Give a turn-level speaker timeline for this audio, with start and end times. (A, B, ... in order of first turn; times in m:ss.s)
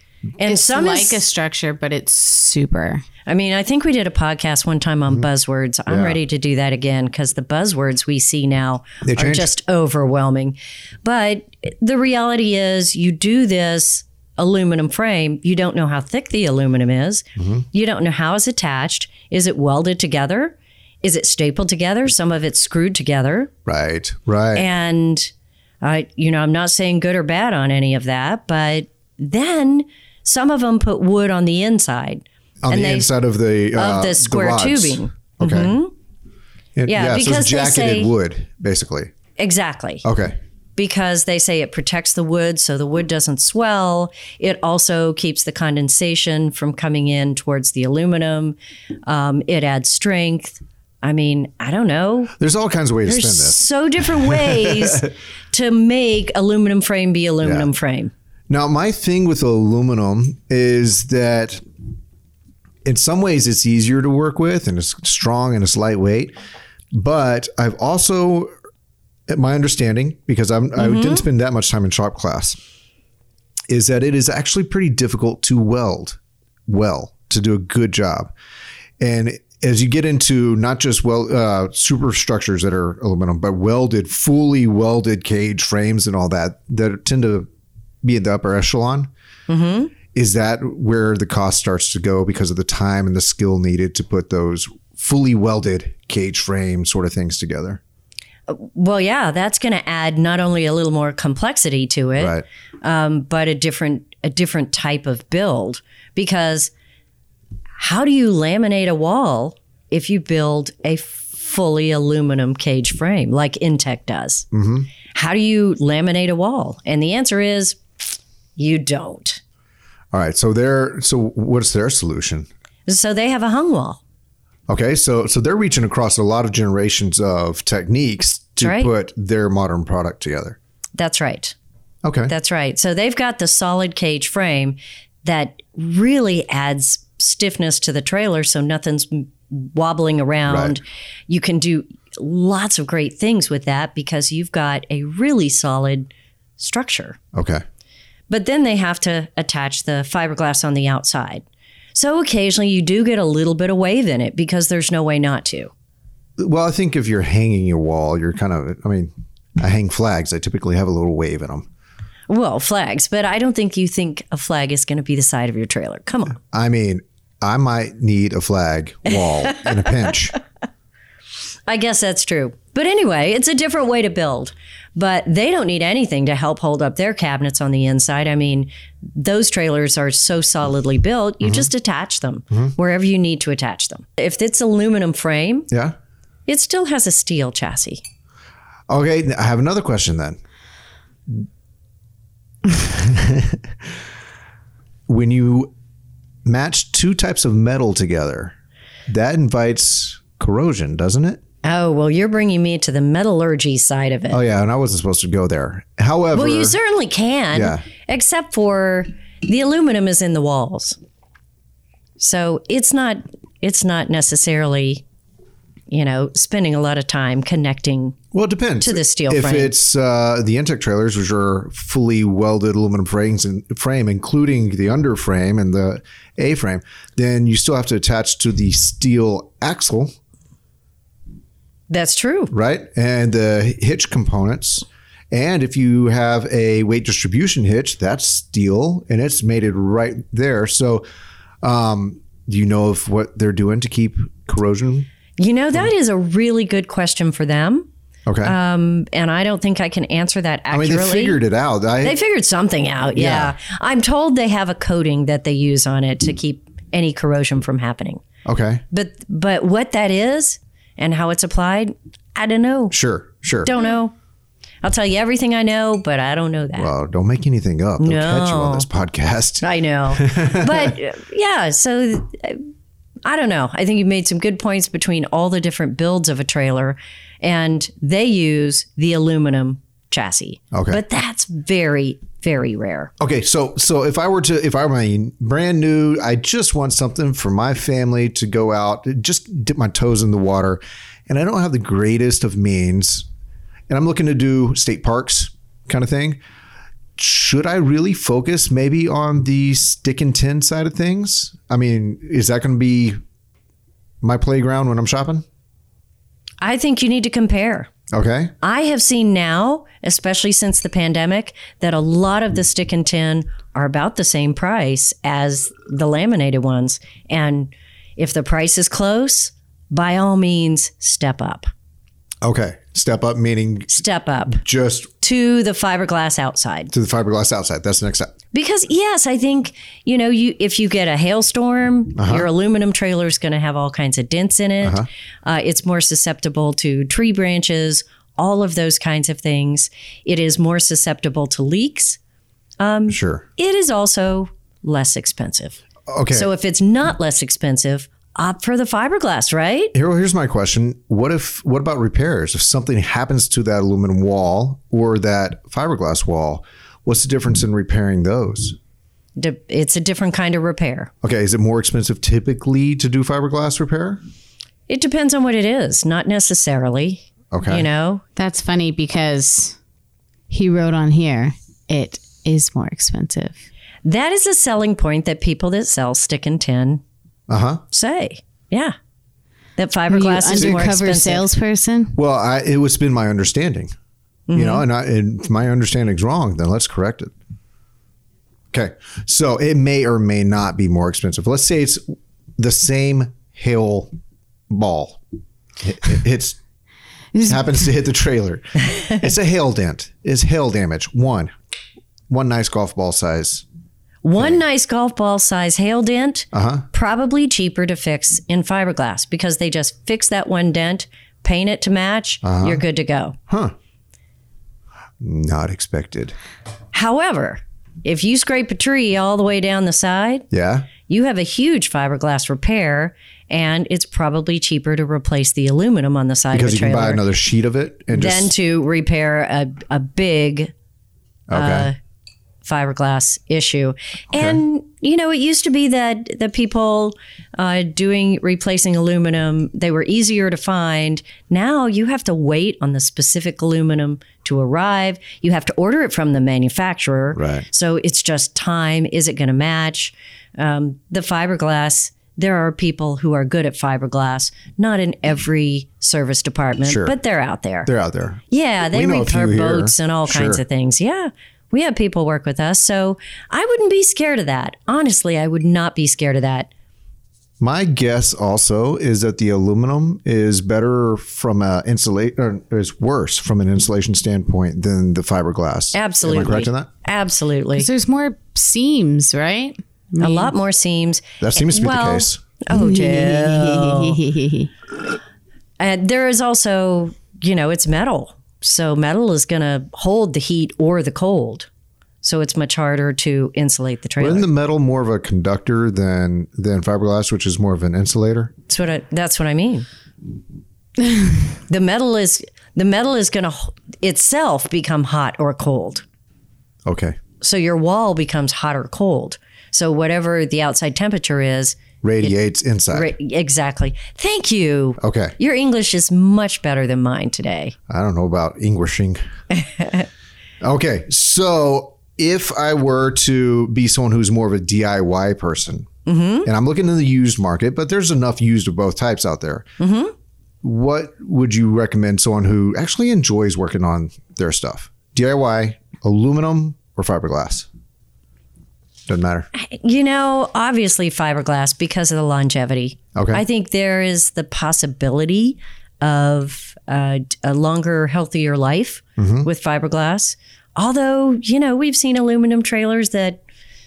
0:00.4-0:01.2 A
0:00.4-0:03.0 B
0:03.2-0:23.5 A
0:05.9-0:06.2 C
0:09.0-0:09.5 C
0:17.4-0:17.6 C
0:23.6-0:24.7 C
0:24.5-0:25.3 A
0:25.8-0:33.1 A
0:32.6-0:35.8 C
0:33.7-0:35.9 A
0:36.8-0:39.1 C
0:36.9-0:38.1 A
0:39.4-0:40.0 A
0:40.0-0:40.4 C
0:40.8-0:52.3 A
0:52.4-0:55.1 C
0:53.0-0:58.1 A
0:57.4-0:57.7 C
0:58.5-1:01.6 C
1:02.8-1:06.3 C
1:06.9-1:08.5 C
1:09.3-1:12.6 C
1:10.8-1:11.2 A
1:13.7-1:18.3 C
1:19.0-1:27.5 C
1:28.0-1:29.1 C
1:29.5-1:29.9 A
1:30.1-1:37.8 C
1:38.5-1:46.7 A
1:42.2-1:42.4 C
1:47.8-1:54.4 A
1:54.5-1:54.9 C
1:55.1-1:57.8 A
1:58.6-1:59.4 A
2:00.1-2:02.5 C
2:02.9-2:04.0 A
2:04.7-2:10.6 C
2:08.6-2:08.9 A
2:11.0-2:11.6 A
2:12.0-2:12.3 C
2:12.3-2:27.2 A
2:20.5-2:20.8 C
2:27.3-2:27.6 C
2:28.3-2:35.7 A
2:36.4-2:41.7 C
2:42.3-2:46.4 A
2:46.4-2:50.4 C
2:51.7-3:05.7 A
3:01.4-3:01.7 C
3:06.5-3:08.0 A
3:08.9-3:10.4 C
3:12.7-3:13.7 C
3:15.1-3:15.7 C
3:16.4-3:18.5 C
3:19.1-3:21.4 C
3:21.6-3:24.4 A
3:24.3-3:26.8 C
3:26.3-3:31.0 A
3:27.5-3:27.8 C
3:32.2-3:35.0 A
3:35.9-3:38.2 A
3:38.3-3:50.1 C
3:38.8-3:39.7 A
3:51.9-3:52.5 A
3:52.5-4:01.0 C
4:01.6-4:05.1 C
4:05.4-4:07.9 A
4:08.2-4:08.5 C
4:08.4-4:11.4 A
4:10.7-4:12.2 C
4:12.0-4:18.2 A
4:13.2-4:13.5 C
4:18.4-4:18.8 C
4:18.9-4:23.0 A
4:22.9-4:23.7 C
4:23.6-4:24.1 A
4:24.8-4:26.9 A
4:26.8-4:31.0 C
4:28.0-4:28.9 A
4:29.6-4:32.6 A
4:33.2-4:43.1 A
4:40.7-4:41.0 C
4:43.2-4:53.3 C
4:53.9-4:56.4 C
4:57.2-5:03.2 C
5:04.2-5:05.4 C
5:06.6-5:07.9 A
5:08.1-5:08.5 C
5:08.6-5:21.7 A
5:22.4-5:25.1 C
5:23.9-5:24.6 A
5:25.2-5:26.9 A
5:26.9-5:28.3 C
5:28.5-5:42.2 A
5:32.2-5:32.5 C
5:34.8-5:35.1 C
5:42.8-5:45.8 A
5:43.1-5:43.4 C
5:46.1-5:46.5 C
5:46.3-5:49.9 A
5:49.9-5:58.8 C
5:59.4-6:01.1 A
6:01.2-6:04.2 C
6:04.9-6:08.2 A
6:07.5-6:07.8 C
6:08.4-6:09.8 B
6:10.5-6:13.6 B
6:14.0-6:17.0 A
6:17.5-6:17.8 C
6:17.9-6:18.9 A
6:19.8-6:21.4 A
6:20.1-6:22.2 B
6:20.5-6:20.9 C
6:22.1-6:23.9 C
6:24.5-6:24.8 A
6:24.5-6:27.3 C
6:28.7-6:32.0 C
6:32.6-6:34.1 C
6:34.7-6:35.2 C
6:35.8-6:36.6 C
6:37.4-6:41.5 C
6:42.3-6:43.6 C
6:44.2-6:53.4 A
6:46.5-6:46.8 C
6:52.4-6:52.8 C
6:53.5-6:53.7 C
6:55.2-6:56.4 C
6:56.9-7:00.5 A
7:00.5-7:00.9 C
7:01.1-7:07.2 A
7:06.5-7:08.5 C
7:08.1-7:10.7 A
7:11.5-7:11.9 C
7:11.5-7:11.9 A
7:12.6-7:37.9 A
7:14.3-7:14.6 C
7:27.3-7:27.6 C
7:36.8-7:37.2 C
7:37.8-7:40.6 C
7:38.5-7:46.7 A
7:47.6-7:56.9 C
7:55.9-7:57.9 A
7:57.8-8:00.5 B
8:00.2-8:04.2 A
8:01.4-8:02.4 C
8:02.7-8:04.7 B
8:05.8-8:11.7 A
8:12.2-8:14.5 A
8:14.2-8:18.5 C
8:18.7-8:19.8 A
8:21.7-8:26.0 A
8:26.8-8:27.2 C
8:27.4-8:32.3 A
8:32.0-8:33.1 C
8:32.9-8:37.7 A
8:35.0-8:35.3 C
8:37.9-8:39.2 C
8:39.6-8:40.0 A
8:40.6-8:45.9 C
8:46.0-8:46.5 A
8:46.4-8:49.7 C
8:49.8-8:50.1 A
8:50.6-8:57.7 C
8:59.1-8:59.5 C
8:59.5-9:13.4 A
9:03.1-9:03.4 C
9:09.2-9:09.5 C